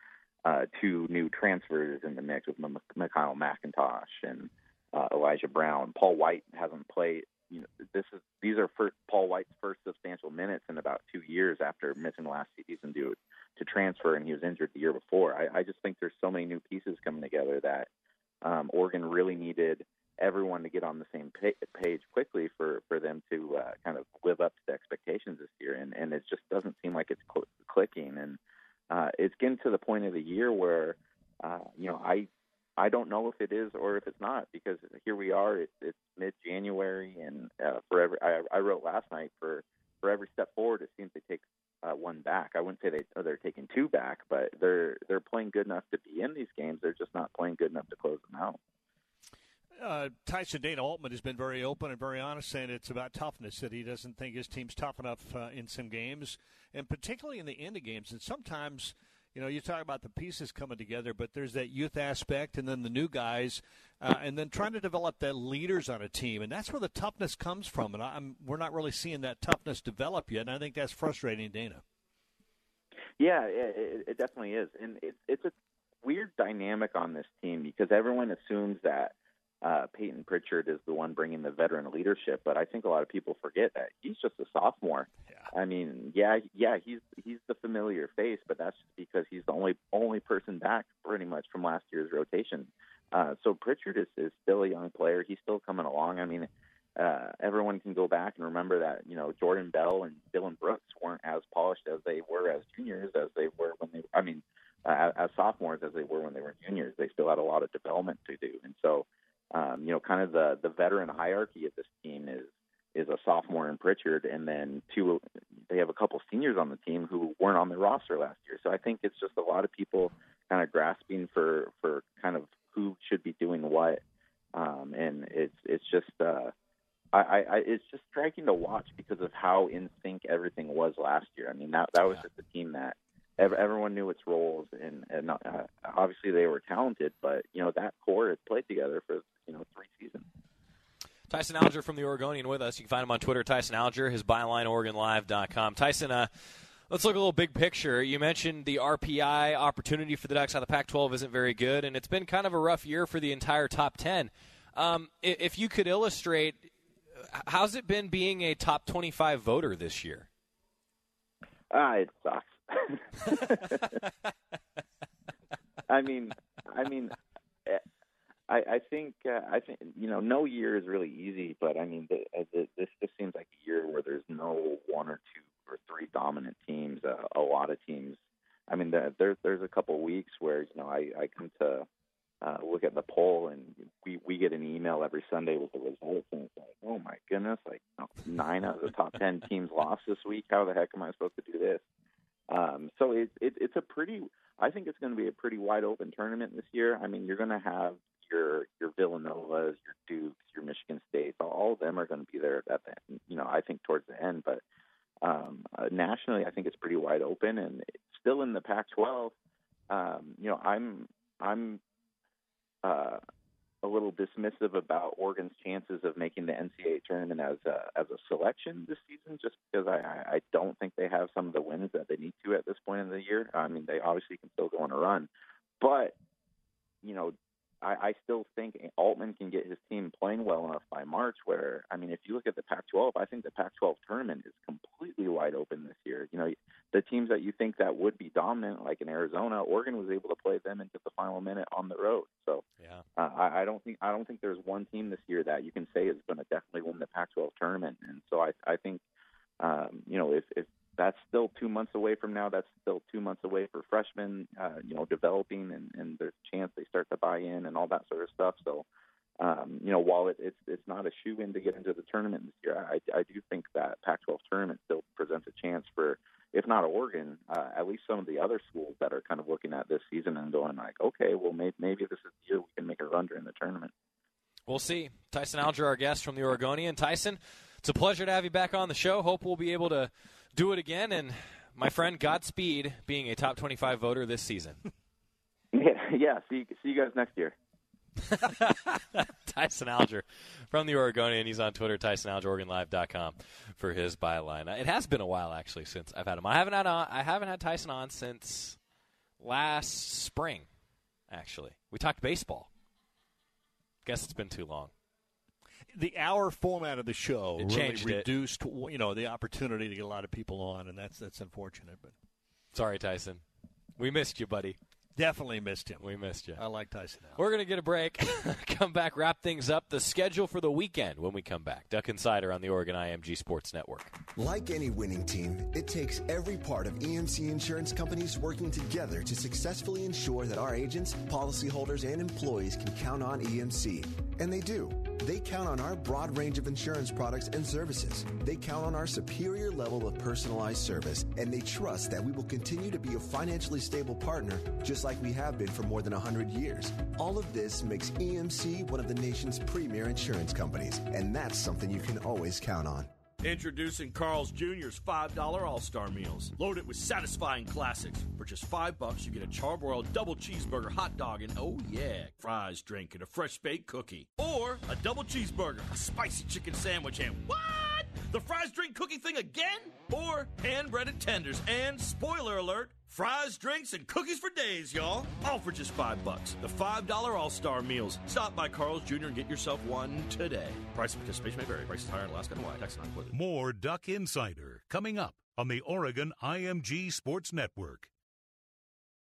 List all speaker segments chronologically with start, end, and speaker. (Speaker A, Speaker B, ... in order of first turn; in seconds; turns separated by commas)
Speaker A: 0.4-17.9, Speaker A: 18.4-28.4, Speaker A: 28.9-48.6, Speaker B: 49.8-71.8, Speaker A: 73.2-124.0, Speaker A: 124.5-126.5, Speaker A: 127.1-140.2, Speaker C: 141.3-146.3, Speaker C: 146.9-156.7, Speaker C: 157.3-160.3, Speaker A: 161.7-163.8, Speaker A: 165.9-167.1, Speaker A: 168.5-181.9, Speaker A: 182.4-191.8, Speaker A: 192.5-204.6, Speaker A: 205.2-209.3, Speaker A: 209.9-211.8, Speaker A: 212.8-213.2, Speaker A: 213.8-225.3, Speaker A: 225.8-226.1, Speaker A: 227.0-242.6, Speaker C: 242.8-243.0, Speaker A: 243.2-249.0, Speaker A: 249.6-258.8, Speaker A: 259.4-273.9, Speaker C: 274.7-284.8, Speaker A: 285.7-287.5, Speaker C: 288.3-298.8, Speaker C: 299.4-300.7, Speaker C: 301.3-302.7, Speaker C: 304.0-304.9, Speaker B: 305.9-312.1, Speaker C: 307.6-308.3, Speaker C: 312.7-313.4, Speaker C: 314.0-314.8, Speaker B: 315.1-317.4, Speaker C: 316.0-316.6, Speaker C: 317.3-324.1, Speaker D: 324.4-353.1, Speaker E: 353.4-383.3, Speaker F: 383.3-388.1